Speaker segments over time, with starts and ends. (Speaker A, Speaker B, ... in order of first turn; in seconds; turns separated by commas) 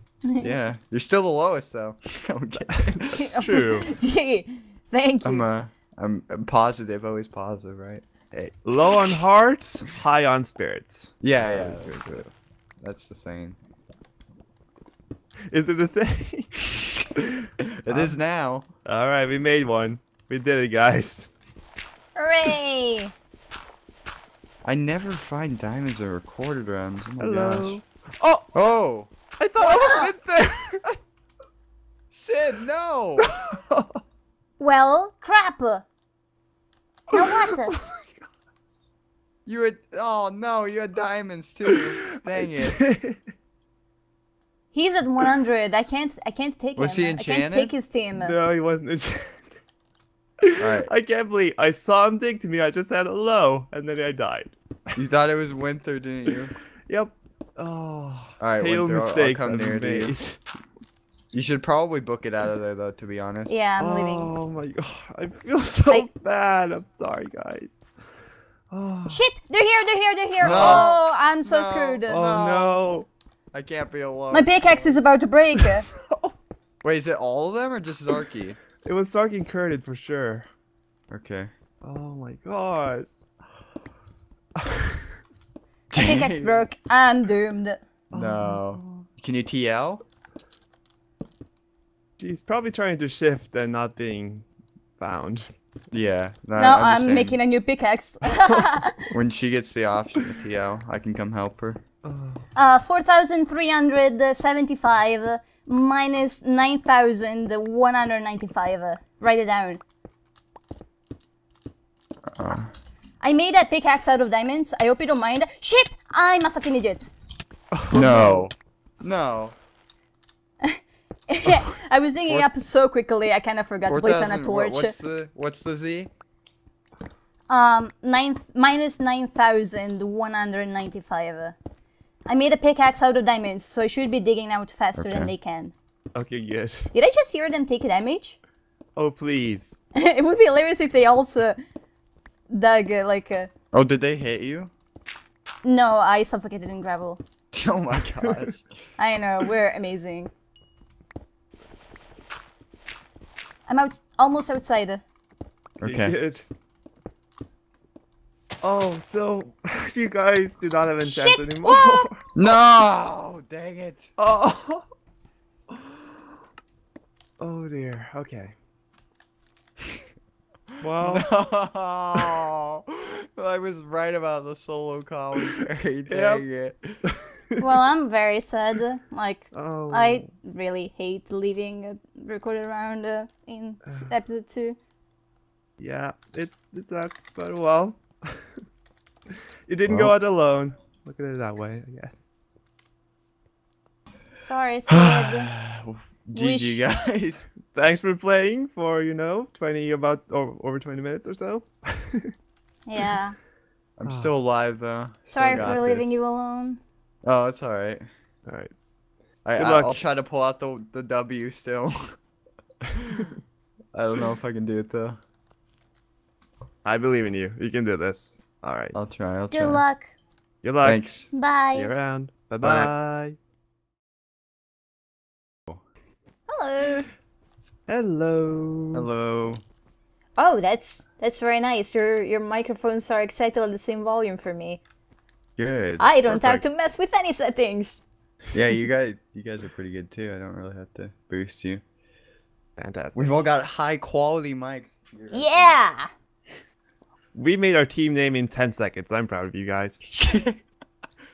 Speaker A: 0.2-0.6, Speaker B: 0.4-3.3, Speaker C: 2.5-3.9, Speaker A: 3.1-5.5, Speaker B: 5.2-8.0, Speaker C: 8.3-12.3, Speaker B: 11.2-12.2, Speaker B: 12.8-13.6, Speaker C: 15.5-18.2, Speaker B: 17.8-18.7, Speaker C: 18.9-21.3, Speaker A: 22.1-23.1, Speaker B: 24.6-27.8, Speaker C: 27.2-28.6, Speaker B: 28.5-29.1, Speaker C: 29.4-31.0, Speaker A: 29.6-30.1, Speaker B: 32.1-33.3, Speaker C: 33.2-34.0, Speaker A: 34.6-35.8, Speaker A: 37.1-37.8, Speaker C: 37.1-38.1, Speaker B: 39.5-42.9, Speaker C: 41.7-43.1, Speaker A: 44.7-48.3, Speaker B: 46.8-47.7, Speaker C: 48.1-49.6, Speaker C: 50.4-54.5, Speaker B: 50.6-50.9, Speaker B: 55.0-56.5, Speaker C: 56.9-60.4, Speaker B: 58.4-60.1, Speaker B: 61.3-63.6, Speaker A: 63.5-64.3, Speaker C: 63.8-67.8, Speaker C: 68.7-69.2, Speaker A: 69.1-72.2, Speaker C: 70.4-70.9, Speaker B: 70.4-73.0, Speaker C: 72.1-73.1, Speaker B: 73.5-75.0, Speaker A: 74.3-75.9, Speaker C: 75.6-76.3, Speaker B: 76.8-78.6, Speaker C: 78.8-80.5, Speaker B: 81.1-81.5, Speaker C: 81.8-83.1, Speaker C: 84.6-85.0, Speaker A: 85.9-87.8, Speaker B: 85.9-86.7, Speaker B: 88.1-90.0, Speaker C: 88.1-89.0, Speaker C: 92.2-94.4, Speaker C: 95.0-95.5, Speaker B: 95.9-97.4, Speaker A: 96.5-99.1, Speaker B: 99.1-101.8, Speaker C: 102.0-102.4, Speaker A: 102.5-109.8, Speaker B: 112.3-112.7, Speaker A: 113.2-117.1, Speaker C: 117.7-118.5, Speaker B: 117.9-119.5, Speaker A: 120.6-124.9, Speaker B: 122.2-122.5, Speaker B: 123.8-126.1, Speaker A: 127.5-131.6, Speaker A: 132.2-135.7, Speaker B: 135.0-135.3, Speaker C: 136.1-136.9, Speaker A: 136.9-138.4, Speaker C: 139.0-139.8, Speaker A: 140.0-141.6, Speaker A: 142.5-143.5, Speaker B: 143.7-144.7, Speaker A: 145.6-147.2, Speaker B: 147.5-148.6, Speaker A: 149.0-150.3, Speaker A: 153.7-155.0, Speaker B: 155.8-156.1, Speaker C: 155.8-156.4, Speaker C: 158.6-162.2, Speaker A: 161.0-162.1, Speaker B: 162.3-164.1, Speaker C: 164.2-164.8, Speaker C: 165.7-166.0, Speaker C: 167.4-168.5, Speaker C: 170.8-171.3, Speaker B: 170.8-177.0, Speaker C: 176.1-176.4, Speaker A: 177.6-184.8, Speaker C: 179.5-180.3, Speaker C: 183.9-184.1, Speaker C: 185.8-188.4, Speaker C: 189.7-192.3, Speaker B: 189.9-190.1, Speaker A: 194.4-195.5, Speaker B: 194.9-197.5, Speaker A: 196.3-196.8, Speaker C: 197.7-202.3, Speaker A: 202.9-203.4, Speaker B: 204.0-206.2, Speaker C: 204.0-204.3, Speaker A: 205.3-206.8, Speaker B: 207.2-208.1, Speaker C: 208.5-208.7, Speaker B: 209.4-212.2, Speaker C: 209.6-210.0, Speaker B: 212.9-213.3, Speaker B: 213.9-215.2, Speaker C: 216.8-219.0, Speaker B: 218.9-219.8, Speaker A: 219.5-220.1, Speaker C: 220.6-221.0, Speaker B: 220.8-221.3, Speaker A: 221.3-221.9, Speaker C: 221.8-223.3, Speaker B: 222.6-222.9, Speaker A: 226.5-227.1, Speaker C: 227.9-229.1, Speaker B: 228.9-229.6, Speaker A: 230.4-234.8, Speaker B: 235.6-236.6, Speaker A: 236.0-238.0, Speaker B: 238.5-241.8, Speaker C: 242.8-243.4, Speaker B: 243.1-245.8, Speaker A: 245.3-246.1, Speaker C: 247.3-250.1, Speaker B: 250.1-250.6